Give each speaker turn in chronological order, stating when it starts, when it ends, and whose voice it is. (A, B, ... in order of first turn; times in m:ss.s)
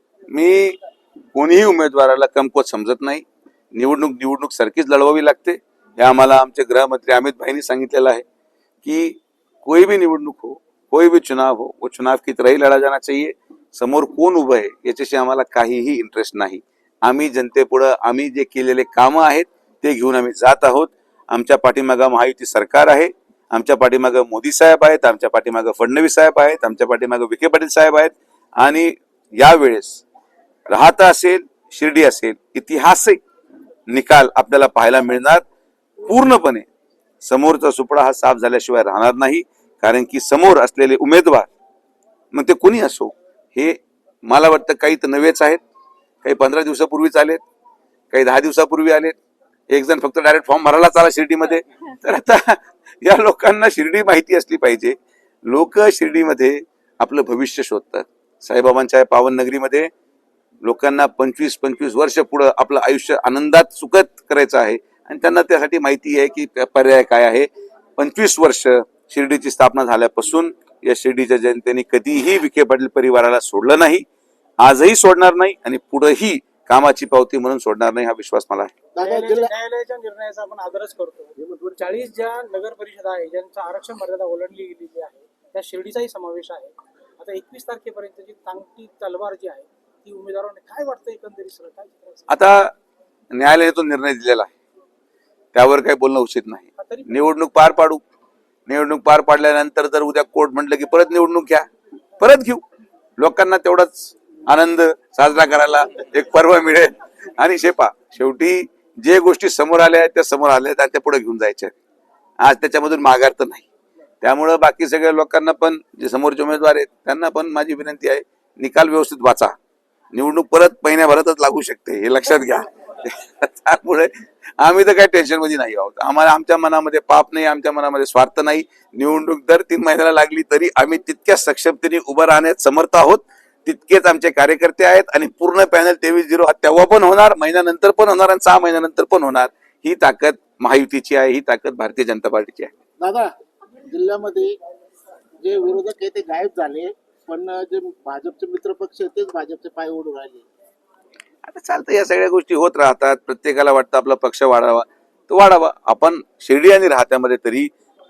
0:00.3-0:00.8 A
0:01.3-0:08.2 A
0:08.8-0:30.0 A
0:30.7-0:33.2 A
0:33.9-0:35.4 A
0:36.0-0:36.6 A
0:37.2-0:41.5 A
0:42.3-0:45.6 A
0:46.2-0:47.4 A
0:48.1-0:49.2 A
0:49.7-0:59.9 A
1:00.6-1:14.0 A
1:14.6-1:18.7 A
1:18.9-1:19.5 B
1:19.0-1:32.4 C
1:21.4-1:21.7 B
1:32.3-1:32.7 A
1:33.3-1:34.5 A
1:35.5-1:38.0 A
1:36.8-1:37.3 C
1:38.7-1:41.6 A
1:42.2-1:42.6 A
1:43.2-1:51.7 A
1:52.4-1:53.7 A
1:54.2-1:59.5 A
2:00.1-2:22.7 A
2:23.0-2:23.3 B
2:23.9-2:24.5 B
2:25.4-2:30.5 B
2:31.4-2:37.7 A